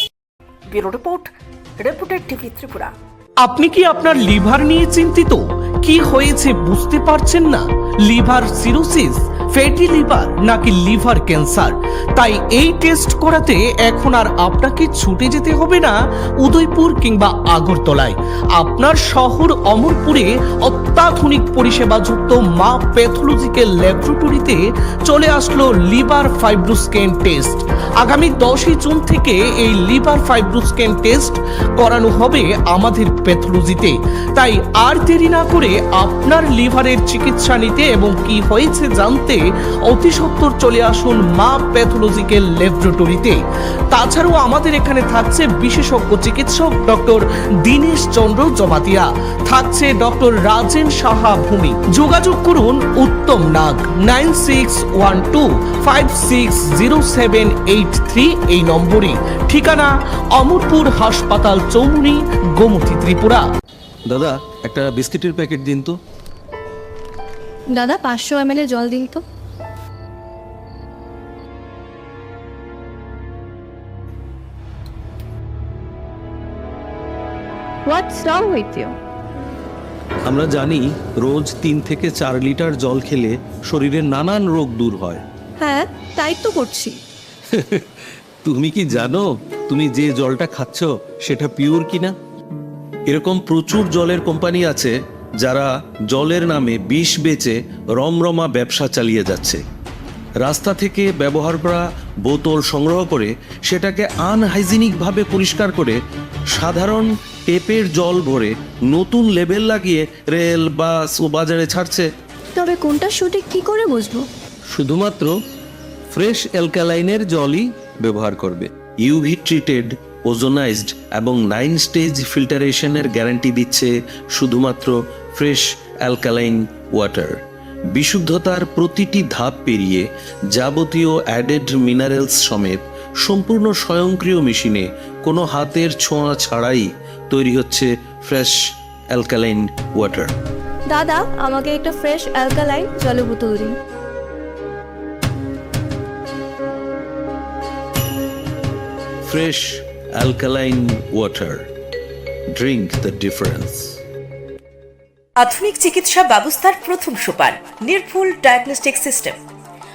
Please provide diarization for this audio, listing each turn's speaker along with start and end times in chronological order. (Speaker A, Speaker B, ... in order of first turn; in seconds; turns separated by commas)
Speaker A: 0.7-2.9, Speaker B: 3.5-15.9, Speaker B: 16.4-43.4, Speaker B: 43.9-63.4, Speaker C: 64.1-66.0, Speaker D: 67.8-69.2, Speaker D: 77.9-79.0, Speaker C: 80.3-85.2, Speaker D: 85.6-87.0, Speaker C: 87.5-87.8, Speaker C: 88.4-92.2, Speaker C: 93.1-99.6, Speaker C: 100.4-106.0, Speaker C: 106.5-112.1, Speaker D: 112.6-114.3, Speaker C: 114.7-115.3, Speaker C: 116.1-127.4, Speaker C: 127.9-138.6, Speaker C: 139.1-140.3, Speaker D: 140.9-143.7, Speaker C: 149.2-151.7, Speaker C: 152.5-154.0, Speaker E: 155.4-159.4